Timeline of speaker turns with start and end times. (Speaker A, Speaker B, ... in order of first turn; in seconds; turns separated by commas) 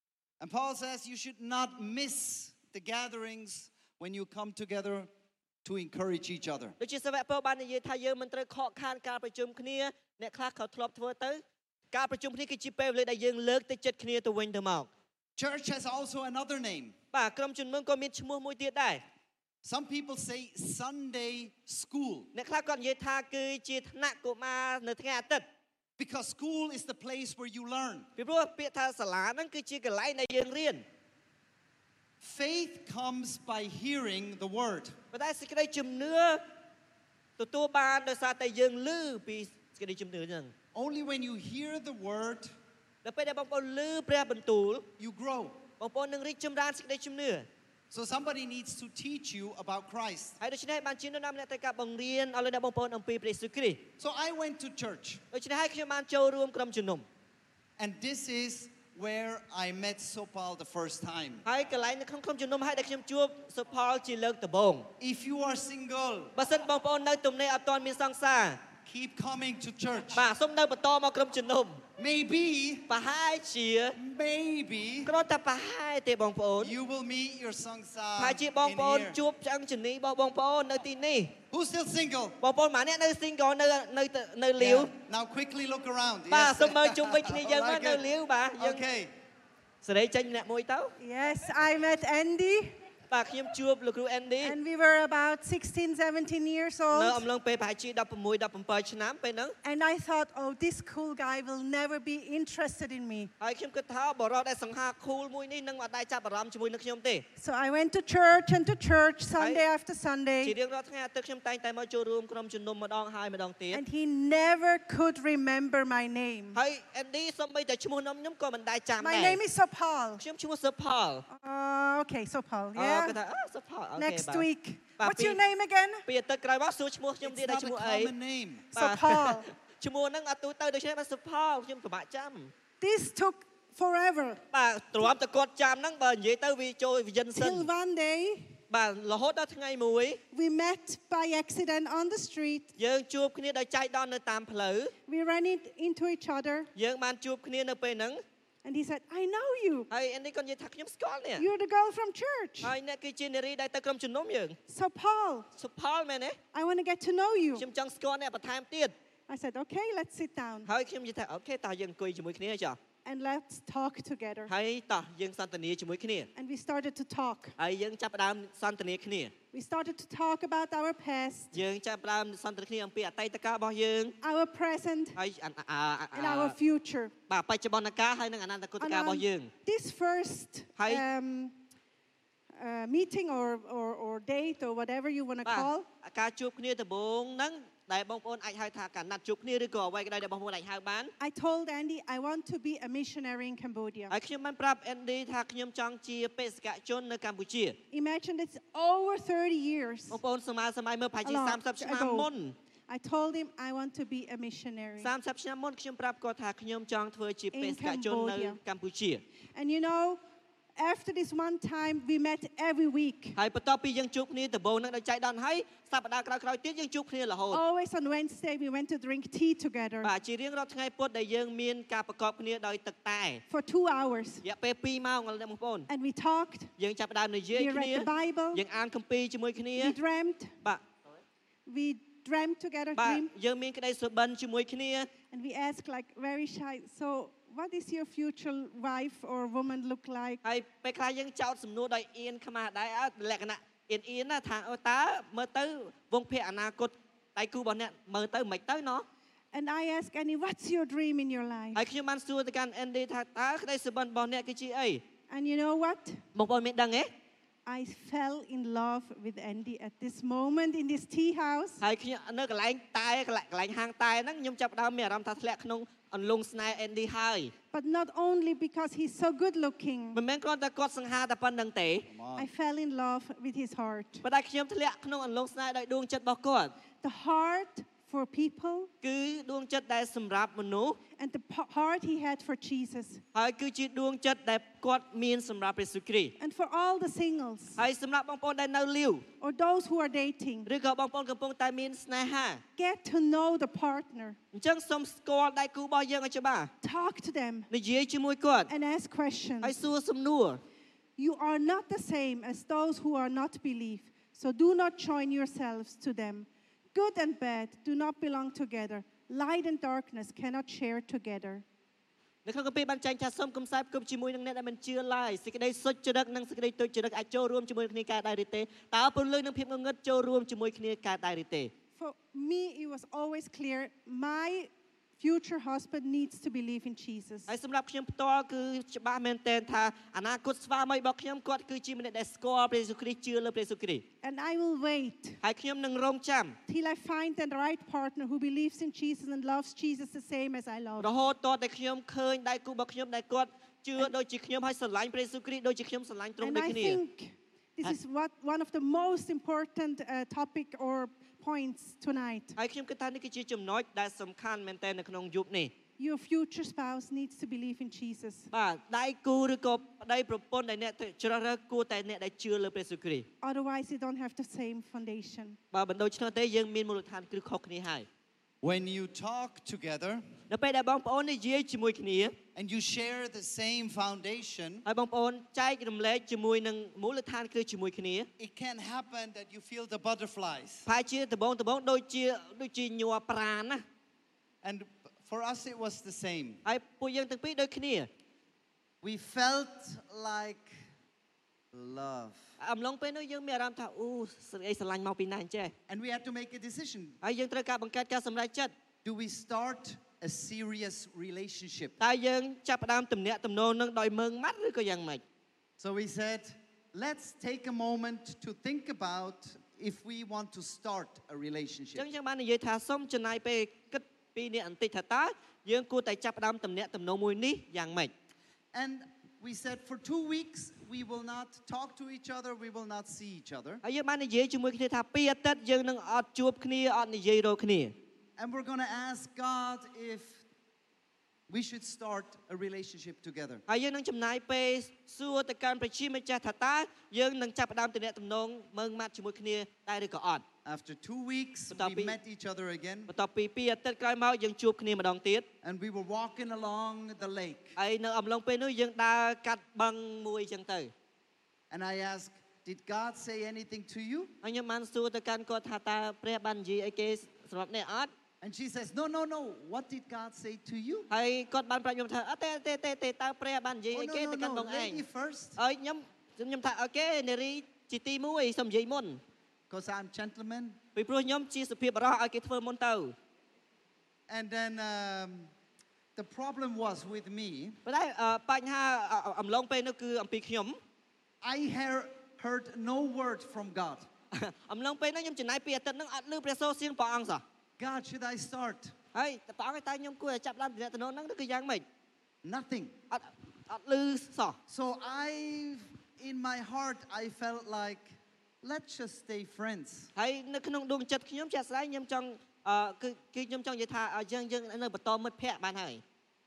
Speaker A: 0.4-5.1, Speaker A: 5.6-6.8, Speaker B: 6.8-14.9, Speaker A: 15.4-16.9, Speaker B: 17.1-19.0, Speaker A: 19.6-22.3, Speaker B: 22.3-25.4, Speaker A: 26.0-28.1, Speaker B: 28.2-30.8, Speaker A: 32.2-35.0, Speaker B: 35.1-36.4, Speaker B: 37.4-40.5, Speaker A: 40.7-42.5, Speaker B: 43.0-44.9, Speaker A: 45.0-45.6, Speaker B: 45.8-47.5, Speaker A: 47.9-50.4, Speaker B: 50.4-53.9, Speaker A: 54.0-55.2, Speaker B: 55.3-57.0, Speaker A: 57.8-61.5, Speaker B: 61.5-64.9, Speaker A: 65.0-66.3, Speaker B: 66.4-68.6, Speaker A: 68.8-70.3, Speaker B: 70.2-71.8, Speaker A: 72.0-72.9, Speaker B: 72.9-74.0, Speaker A: 74.0-75.1, Speaker B: 75.1-76.7, Speaker A: 76.6-79.2, Speaker B: 78.2-81.3, Speaker A: 81.5-82.4, Speaker B: 82.4-84.9, Speaker A: 84.6-89.1, Speaker B: 86.3-88.8, Speaker B: 89.8-90.9, Speaker C: 91.0-92.8, Speaker B: 93.1-94.6, Speaker C: 94.4-97.2, Speaker B: 96.9-99.5, Speaker C: 99.6-103.3, Speaker B: 103.4-107.2, Speaker C: 107.4-110.5, Speaker B: 110.4-113.8, Speaker C: 113.7-116.6, Speaker B: 116.5-119.4, Speaker C: 119.0-120.2, Speaker B: 120.2-121.2, Speaker C: 121.3-123.2, Speaker B: 122.8-124.5, Speaker C: 124.0-126.0, Speaker B: 125.0-125.4, Speaker B: 126.1-128.1, Speaker A: 127.2-128.7, Speaker B: 128.7-132.5, Speaker C: 128.8-129.5, Speaker C: 132.8-134.4, Speaker B: 134.5-137.7, Speaker C: 137.3-138.6, Speaker B: 138.7-140.2, Speaker C: 140.3-142.7, Speaker B: 142.8-144.9, Speaker C: 145.1-146.7, Speaker B: 146.8-148.2, Speaker C: 148.6-149.9, Speaker B: 149.9-151.4, Speaker C: 151.4-152.7, Speaker B: 152.6-154.6, Speaker C: 154.7-155.5, Speaker B: 155.6-156.4, Speaker C: 156.5-157.7, Speaker B: 157.6-158.9, Speaker C: 159.3-160.7, Speaker B: 160.7-162.8, Speaker C: 163.1-164.5, Speaker B: 164.5-166.3, Speaker C: 166.4-167.5, Speaker B: 167.6-169.3, Speaker C: 169.5-171.6, Speaker B: 171.5-174.2, Speaker C: 174.2-175.2, Speaker B: 175.2-176.6, Speaker C: 176.1-177.1, Speaker B: 177.3-179.5, Speaker C: 178.8-181.5, Speaker C: 182.5-185.9, Speaker B: 185.4-191.1, Speaker C: 191.2-194.2, Speaker B: 194.1-197.8, Speaker C: 197.9-200.2, Speaker B: 200.1-202.5, Speaker C: 201.2-202.3, Speaker C: 202.9-205.1, Speaker B: 205.0-209.2, Speaker C: 207.5-208.6, Speaker C: 209.6-210.2, Speaker C: 210.8-213.4, Speaker B: 213.4-217.6, Speaker C: 217.5-220.1, Speaker B: 220.0-223.4, Speaker C: 223.5-224.4, Speaker B: 224.4-225.9, Speaker C: 225.9-226.7, Speaker B: 226.8-230.0, Speaker C: 227.6-228.6, Speaker C: 229.8-230.5, Speaker C: 231.7-233.3, Speaker B: 233.0-235.1, Speaker C: 235.3-240.4, Speaker B: 240.4-249.1, Speaker C: 249.5-251.8, Speaker B: 251.8-255.0, Speaker C: 255.3-256.2, Speaker B: 256.4-257.1, Speaker C: 257.7-261.8, Speaker B: 261.8-267.5, Speaker C: 267.7-270.2, Speaker B: 270.1-272.1, Speaker A: 272.1-272.5, Speaker C: 272.4-274.2, Speaker B: 274.2-276.7, Speaker C: 277.0-278.9, Speaker B: 279.0-281.0, Speaker C: 281.2-283.2, Speaker B: 283.4-286.4, Speaker C: 286.4-287.8, Speaker B: 287.8-289.2, Speaker C: 289.4-290.7, Speaker B: 290.7-292.6, Speaker C: 292.8-294.4, Speaker B: 294.5-296.7, Speaker C: 296.8-297.7, Speaker B: 297.7-298.7, Speaker C: 298.7-299.8, Speaker B: 299.6-300.6, Speaker C: 301.2-311.6, Speaker B: 312.4-321.7, Speaker C: 322.0-327.5, Speaker B: 327.5-334.0, Speaker C: 334.2-335.4, Speaker B: 335.4-336.6, Speaker C: 336.7-341.1, Speaker B: 341.0-347.0, Speaker C: 346.4-352.6, Speaker B: 352.6-355.7, Speaker C: 356.0-358.5, Speaker B: 358.5-363.3, Speaker C: 363.4-365.6, Speaker B: 365.7-368.1, Speaker A: 368.6-370.2, Speaker B: 370.5-372.3, Speaker A: 372.6-374.9, Speaker B: 374.9-378.3, Speaker A: 378.4-380.9, Speaker B: 380.9-383.8, Speaker A: 384.6-386.6, Speaker B: 386.6-388.1, Speaker A: 389.0-390.8, Speaker A: 391.7-392.4, Speaker B: 392.6-395.7, Speaker A: 395.9-397.2, Speaker B: 397.2-398.7, Speaker A: 399.1-401.9, Speaker B: 402.0-405.2, Speaker A: 405.8-412.1, Speaker B: 411.9-418.1, Speaker A: 418.7-423.8, Speaker B: 423.8-427.9, Speaker A: 428.4-430.4, Speaker A: 431.5-433.6, Speaker B: 433.7-440.4, Speaker A: 440.6-443.1, Speaker B: 441.7-442.2, Speaker B: 443.1-445.5, Speaker A: 445.6-447.8, Speaker B: 447.8-450.9, Speaker A: 451.7-454.3, Speaker B: 454.4-458.1, Speaker A: 458.4-461.1, Speaker B: 461.1-465.0, Speaker A: 463.9-465.6, Speaker B: 465.6-469.2, Speaker A: 469.7-470.8, Speaker B: 471.0-473.1, Speaker A: 474.3-475.5, Speaker A: 476.2-477.8, Speaker B: 477.9-480.8, Speaker A: 481.4-484.1, Speaker B: 484.3-487.4, Speaker A: 487.8-488.9, Speaker B: 489.1-491.8, Speaker A: 492.4-492.9, Speaker B: 493.1-494.6, Speaker A: 494.7-500.1, Speaker B: 500.2-506.0